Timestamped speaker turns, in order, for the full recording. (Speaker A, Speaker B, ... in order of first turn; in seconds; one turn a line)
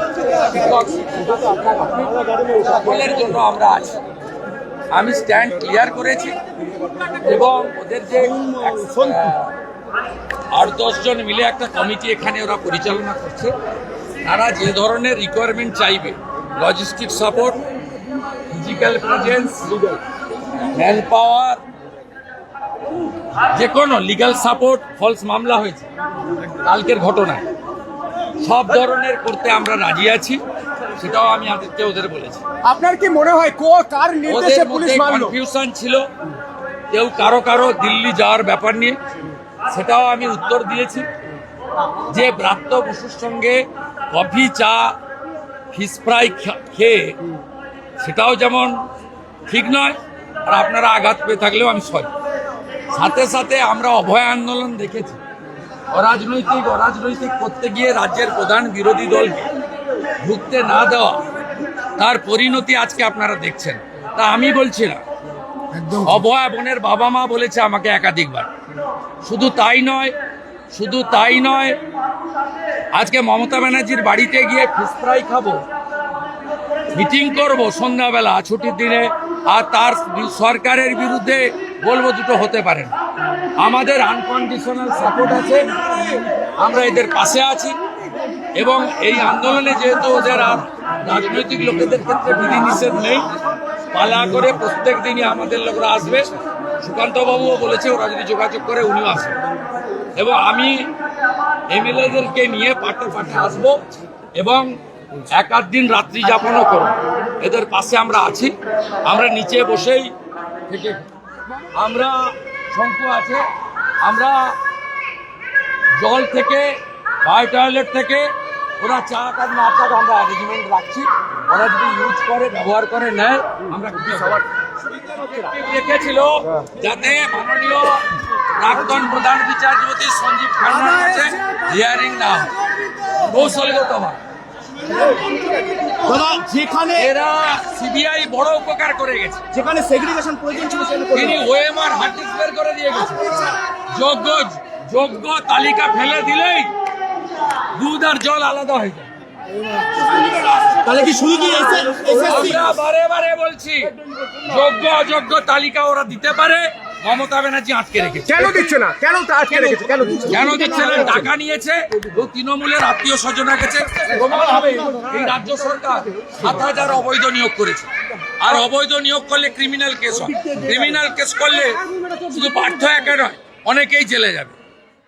Speaker A: 0.3-1.3
Speaker A: 2.5-4.0
Speaker A: 4.9-6.3
Speaker A: 7.1-9.5
Speaker A: 10.5-13.5
Speaker A: 14.2-17.6
Speaker A: 18.5-19.9
Speaker A: 20.7-21.6
Speaker A: 23.5-25.9
Speaker A: 26.6-27.4
Speaker A: 28.4-30.4
Speaker A: 31.0-32.4
Speaker B: 32.6-35.3
Speaker A: 34.3-36.0
Speaker A: 36.9-39.0
Speaker A: 39.7-41.1
Speaker A: 42.1-45.0
Speaker A: 45.7-47.2
Speaker A: 48.0-48.8
Speaker A: 49.5-52.1
Speaker A: 52.9-55.2
Speaker A: 55.9-59.5
Speaker A: 60.2-61.2
Speaker A: 62.0-65.0
Speaker A: 65.8-68.5
Speaker A: 69.2-70.1
Speaker A: 70.7-71.8
Speaker A: 72.9-75.6
Speaker A: 76.9-82.9
Speaker A: 83.6-85.7
Speaker A: 86.6-87.8
Speaker A: 88.5-93.3
Speaker A: 93.9-96.3
Speaker A: 96.8-99.3
Speaker A: 100.2-100.9
Speaker A: 101.7-103.8
Speaker A: 104.4-104.7
Speaker A: 105.3-108.5
Speaker A: 109.0-110.1
Speaker A: 110.7-111.0
Speaker A: 111.7-113.5
Speaker A: 114.0-114.5
Speaker A: 116.0-124.5
Speaker A: 125.1-132.5
Speaker B: 131.3-131.6
Speaker A: 133.2-134.2
Speaker B: 136.0-137.1
Speaker A: 136.9-139.4
Speaker B: 139.5-141.4
Speaker A: 141.1-146.7
Speaker A: 147.7-149.1
Speaker A: 150.3-151.0
Speaker B: 150.8-152.7
Speaker A: 152.0-158.6
Speaker B: 158.3-161.2
Speaker A: 160.2-167.9
Speaker A: 168.4-174.5